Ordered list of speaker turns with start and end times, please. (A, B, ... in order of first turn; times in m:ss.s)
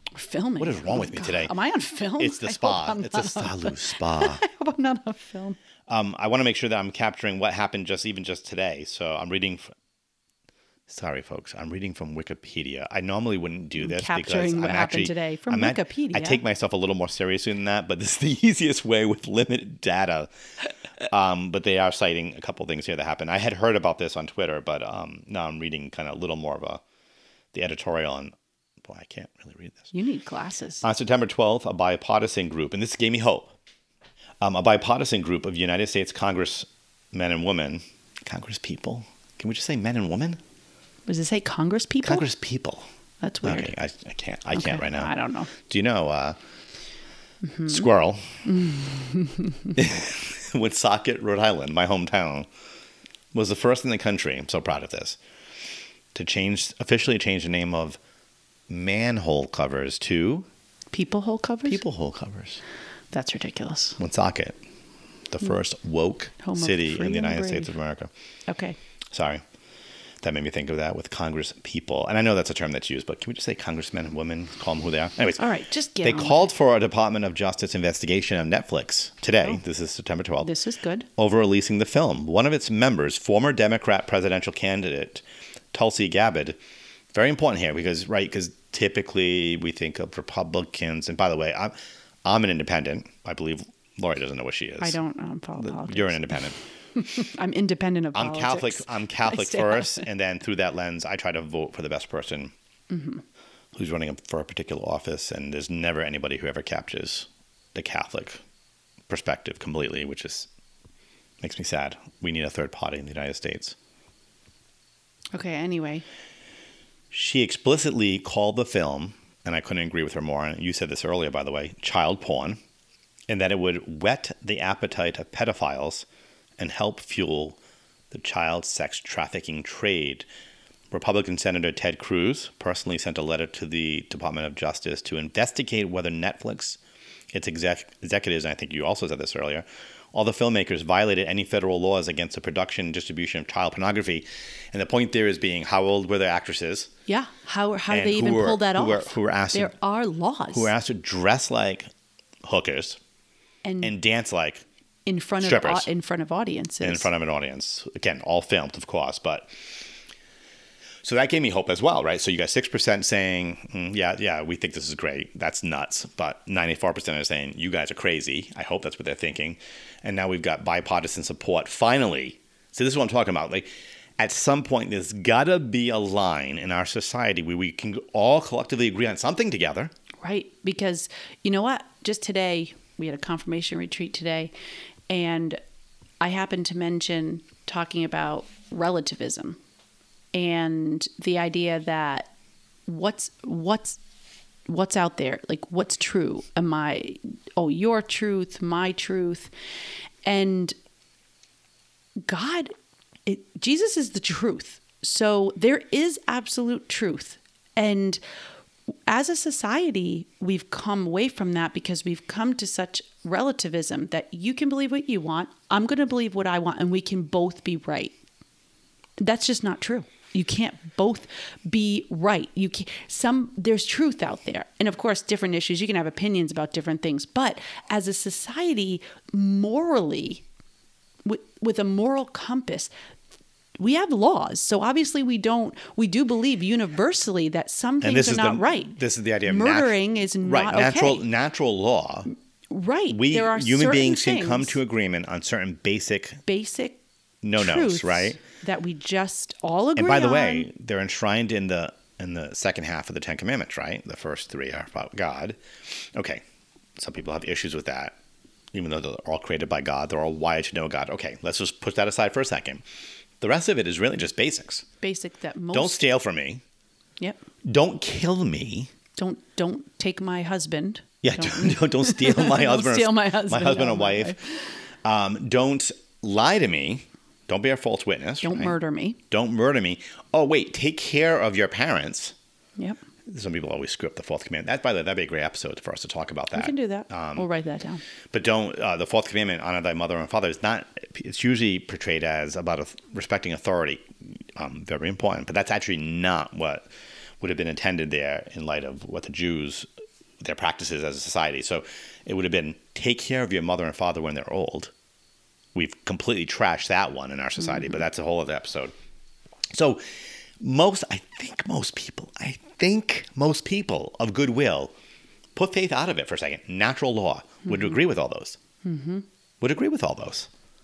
0:00.1-0:05.6 A
0:00.6-0:01.5 B
0:02.2-0:04.4 B
0:05.9-0:09.7 B
0:10.9-0:20.3 B
0:13.8-0:16.4 A
0:21.0-0:26.8 B
0:27.5-0:29.9 B
0:29.9-0:30.8 A
0:30.8-0:33.6 B
0:34.4-0:40.4 B
0:41.1-0:42.3 A
0:42.0-0:42.9 B
0:43.2-0:43.7 A
0:43.4-0:46.4 B
0:44.5-0:45.5 A
0:47.4-0:47.9 A
0:47.7-0:48.4 B
0:48.4-0:49.8 A
0:49.8-0:52.5 B
0:53.3-0:55.2 B
0:56.1-0:58.0 B
0:58.7-1:00.5 B
1:00.9-1:01.8 A
1:01.7-1:02.6 B
1:03.1-1:04.0 A
1:04.0-1:04.6 B
1:05.3-1:08.1 B
1:06.4-1:07.7 A
1:08.5-1:08.8 A
1:09.1-1:09.4 B
1:10.2-1:15.5 B
1:15.4-1:16.5 A
1:16.0-1:20.5 B
1:20.4-1:21.1 A
1:21.2-1:26.6 B
1:27.1-1:31.7 B
1:32.2-1:35.0 B
1:34.8-1:40.1 A
1:35.6-1:36.6 B
1:38.2-1:42.5 B
1:42.9-1:43.2 A
1:43.7-1:48.4 B
1:49.1-1:50.5 B
1:51.4-1:53.8 B
1:55.3-1:56.0 A
1:57.1-2:02.6 B
2:03.3-2:06.0 B
2:06.6-2:07.6 B
2:08.1-2:10.3 B
2:10.9-2:16.8 B
2:17.3-2:26.9 B
2:27.1-2:30.7 A
2:27.9-2:29.7 B
2:30.5-2:31.9 B
2:32.4-2:33.0 B
2:33.6-2:33.9 A
2:33.8-2:34.6 B
2:35.1-2:37.1 A
2:35.4-2:35.9 B
2:36.8-2:39.5 B
2:41.0-2:53.7 B
2:54.2-2:59.9 B
3:00.2-3:04.5 A
3:05.1-3:05.6 A
3:06.2-3:09.6 A
3:10.3-3:12.3 A
3:12.9-3:14.0 A
3:14.7-3:19.5 A
3:20.2-3:20.8 A
3:22.2-3:22.7 A
3:23.3-3:28.2 A
3:29.1-3:38.2 A
3:39.2-3:50.4 A
3:51.2-3:52.9 A
3:53.8-4:01.2 A
3:58.0-4:02.3 B
4:02.7-4:04.8 A
4:03.1-4:06.4 B
4:06.5-4:07.0 A
4:07.4-4:08.4 B
4:07.6-4:10.7 A
4:10.0-4:16.4 B
4:17.0-4:18.2 B
4:18.7-4:22.8 B
4:23.4-4:24.9 B
4:25.0-4:26.0 A
4:25.7-4:26.6 B
4:27.6-4:28.9 B
4:29.2-4:34.7 A
4:31.2-4:34.4 B
4:35.0-4:38.7 B
4:38.4-4:39.2 A
4:39.3-4:42.4 B
4:43.3-4:47.5 B
4:46.5-4:48.0 A
4:48.3-4:54.0 B
4:54.6-4:56.9 B
4:57.4-4:59.9 B
5:00.4-5:04.9 B
5:05.8-5:08.9 B
5:07.6-5:08.0 A
5:09.7-5:14.9 B
5:15.6-5:18.6 B
5:17.7-5:18.0 A
5:18.8-5:19.2 A
5:19.6-5:20.5 B